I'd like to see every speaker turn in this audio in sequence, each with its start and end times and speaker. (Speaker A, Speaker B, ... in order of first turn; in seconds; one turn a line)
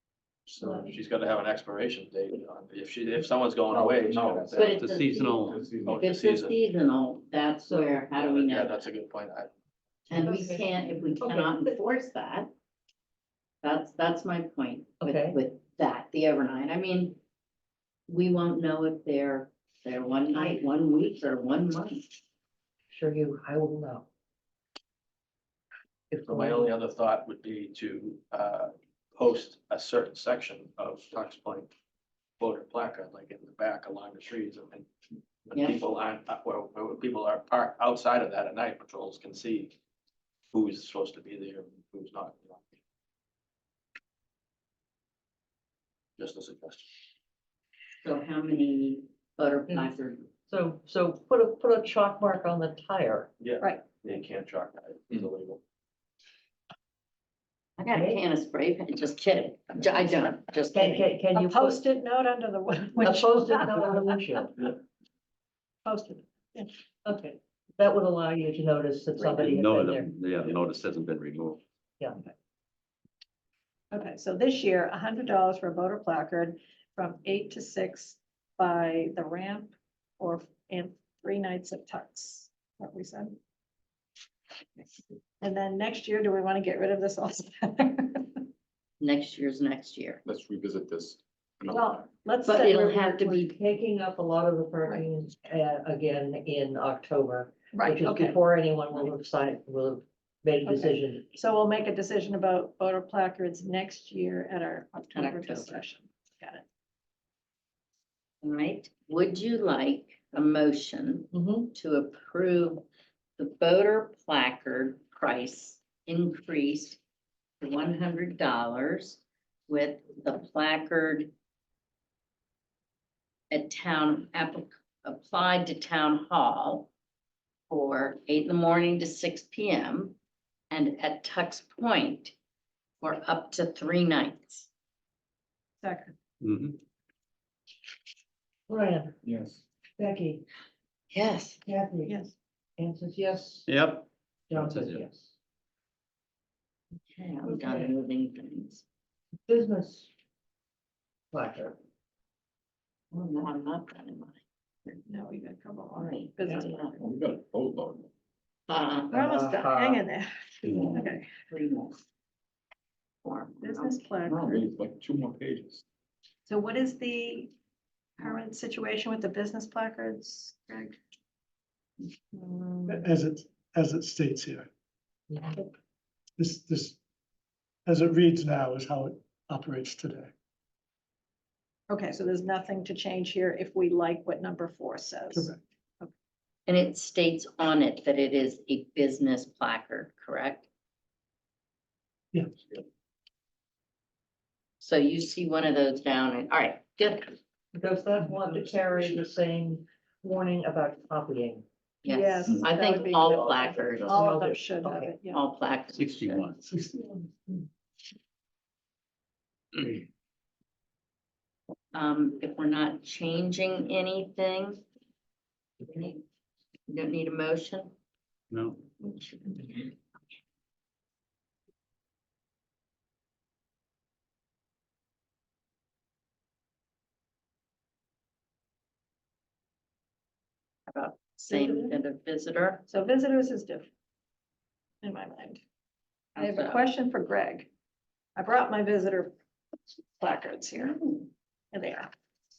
Speaker A: 0.5-4.7
Speaker B: 3.7-6.0
Speaker C: 4.5-8.9
Speaker D: 4.7-5.6
Speaker A: 5.8-6.6
Speaker E: 7.7-8.1
Speaker A: 8.2-9.5
Speaker C: 10.1-12.5
Speaker E: 10.1-10.7
Speaker E: 11.2-11.6
Speaker C: 13.6-17.2
Speaker E: 15.0-15.4
Speaker C: 18.1-22.2
Speaker E: 22.9-24.1
Speaker E: 26.1-26.7
Speaker A: 26.2-31.7
Speaker A: 32.4-34.9
Speaker A: 35.5-39.8
Speaker A: 40.5-42.6
Speaker A: 46.2-46.8
Speaker C: 48.0-50.3
Speaker E: 50.5-53.3
Speaker A: 53.4-55.6
Speaker C: 57.8-61.1
Speaker E: 57.9-58.2
Speaker E: 60.7-61.8
Speaker F: 61.3-64.1
Speaker E: 63.0-64.7
Speaker F: 65.8-66.7
Speaker E: 67.0-70.1
Speaker F: 69.2-69.4
Speaker D: 69.4-71.6
Speaker F: 73.9-83.4
Speaker F: 85.4-88.4
Speaker C: 89.0-90.2
Speaker B: 90.2-91.9
Speaker F: 91.7-93.4
Speaker C: 92.4-93.5
Speaker E: 93.4-101.2
Speaker F: 97.7-98.4
Speaker F: 100.6-106.6
Speaker C: 105.1-105.8
Speaker C: 108.4-112.8
Speaker E: 111.3-111.7
Speaker C: 113.4-117.0
Speaker C: 117.6-121.3
Speaker C: 123.5-126.9
Speaker C: 127.7-130.2
Speaker C: 130.7-132.3
Speaker C: 133.0-134.7
Speaker F: 135.8-136.1
Speaker D: 136.4-136.8
Speaker E: 138.7-139.1
Speaker B: 139.2-139.6
Speaker E: 140.0-140.4
Speaker C: 141.1-141.6
Speaker E: 141.6-143.7
Speaker F: 142.1-142.3
Speaker D: 143.7-145.0
Speaker E: 144.5-145.3
Speaker C: 147.1-148.8
Speaker E: 147.4-147.9
Speaker E: 149.5-150.1
Speaker E: 151.3-151.8
Speaker C: 153.1-155.0
Speaker F: 155.1-157.0
Speaker C: 155.9-157.0
Speaker B: 157.0-158.1
Speaker C: 158.7-159.1
Speaker E: 159.1-160.0
Speaker F: 159.1-161.3
Speaker C: 160.7-162.0
Speaker C: 163.2-164.6
Speaker F: 163.6-164.6
Speaker B: 164.5-165.8
Speaker F: 166.5-167.5
Speaker F: 168.2-171.0
Speaker C: 172.3-172.9
Speaker G: 172.9-174.7
Speaker E: 175.3-175.6
Speaker G: 176.4-177.0
Speaker G: 177.8-180.3
Speaker F: 181.9-186.1
Speaker G: 185.3-185.6
Speaker C: 186.7-190.7
Speaker C: 194.8-197.3
Speaker E: 197.7-201.6
Speaker C: 202.0-204.3
Speaker F: 202.0-205.4
Speaker E: 204.0-205.1
Speaker C: 205.3-206.5
Speaker D: 205.9-206.6
Speaker G: 206.6-207.3
Speaker C: 211.9-214.8
Speaker C: 215.8-216.2
Speaker C: 216.9-217.9
Speaker D: 218.5-218.8
Speaker C: 219.0-219.9
Speaker C: 230.9-232.8
Speaker F: 231.5-231.9
Speaker F: 232.9-233.9
Speaker F: 235.0-235.6
Speaker C: 236.3-236.8
Speaker F: 236.3-237.7
Speaker F: 238.3-239.3
Speaker F: 240.2-241.2
Speaker F: 241.7-242.1